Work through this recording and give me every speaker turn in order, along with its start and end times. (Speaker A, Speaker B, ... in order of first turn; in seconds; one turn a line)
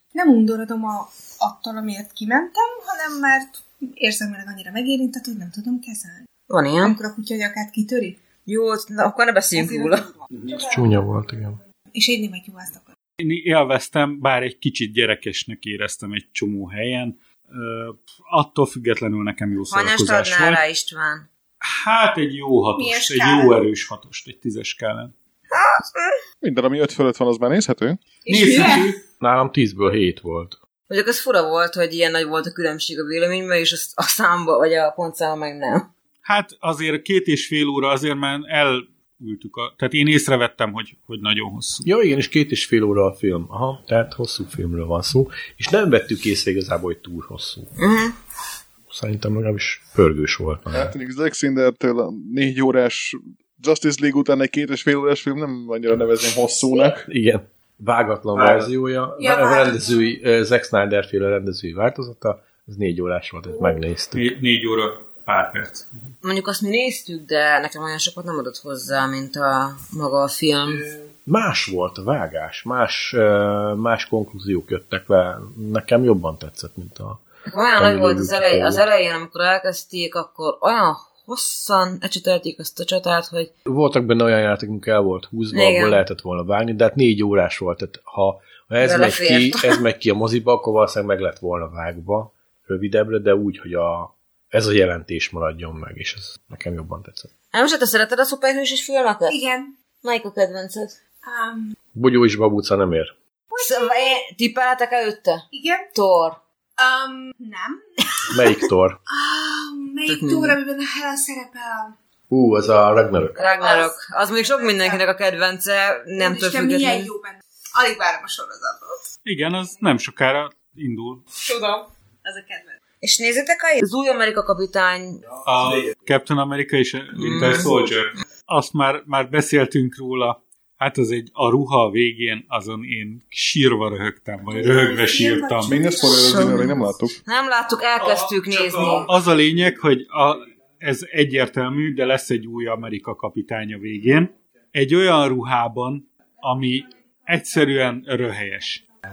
Speaker A: 0.1-6.2
Speaker B: 6.5-7.0
Speaker A: 6.8-8.2
Speaker B: 8.4-10.1
Speaker A: 9.5-10.9
Speaker C: 10.6-11.6
Speaker A: 11.9-12.9
Speaker D: 13.2-20.6
Speaker B: 19.7-21.3
Speaker D: 21.6-25.1
Speaker A: 22.7-23.6
Speaker B: 25.5-26.2
Speaker E: 26.4-28.0
Speaker A: 28.2-28.9
Speaker D: 28.2-29.0
Speaker C: 29.2-30.6
Speaker B: 30.9-35.9
Speaker D: 36.2-41.9
Speaker C: 41.8-47.8
Speaker B: 47.8-48.1
Speaker C: 48.9-50.9
Speaker E: 50.7-57.0
Speaker C: 57.1-64.3
Speaker D: 58.3-58.7
Speaker A: 59.2-60.0
Speaker D: 64.1-66.0
Speaker B: 66.2-70.8
Speaker C: 71.2-77.2
Speaker B: 77.5-83.5
Speaker C: 77.8-78.8
Speaker C: 83.7-97.3
Speaker B: 85.5-86.0
Speaker B: 88.8-89.8
Speaker B: 97.5-99.4
Speaker A: 99.3-99.7
Speaker B: 100.0-101.0
Speaker A: 101.2-101.8
Speaker C: 101.9-103.1
Speaker A: 103.5-104.2
Speaker B: 103.6-106.4
Speaker A: 105.5-105.9
Speaker A: 106.8-108.3
Speaker C: 108.3-109.0
Speaker A: 109.1-111.9
Speaker B: 110.1-110.6
Speaker C: 112.3-113.4
Speaker A: 113.4-115.0
Speaker B: 113.4-117.1
Speaker A: 116.2-119.0
Speaker D: 119.2-121.2
Speaker A: 121.4-122.8
Speaker B: 123.0-125.2
Speaker D: 125.4-135.8
Speaker B: 127.2-127.7
Speaker A: 134.5-136.8
Speaker E: 135.7-137.2
Speaker B: 136.0-139.1
Speaker D: 138.0-148.8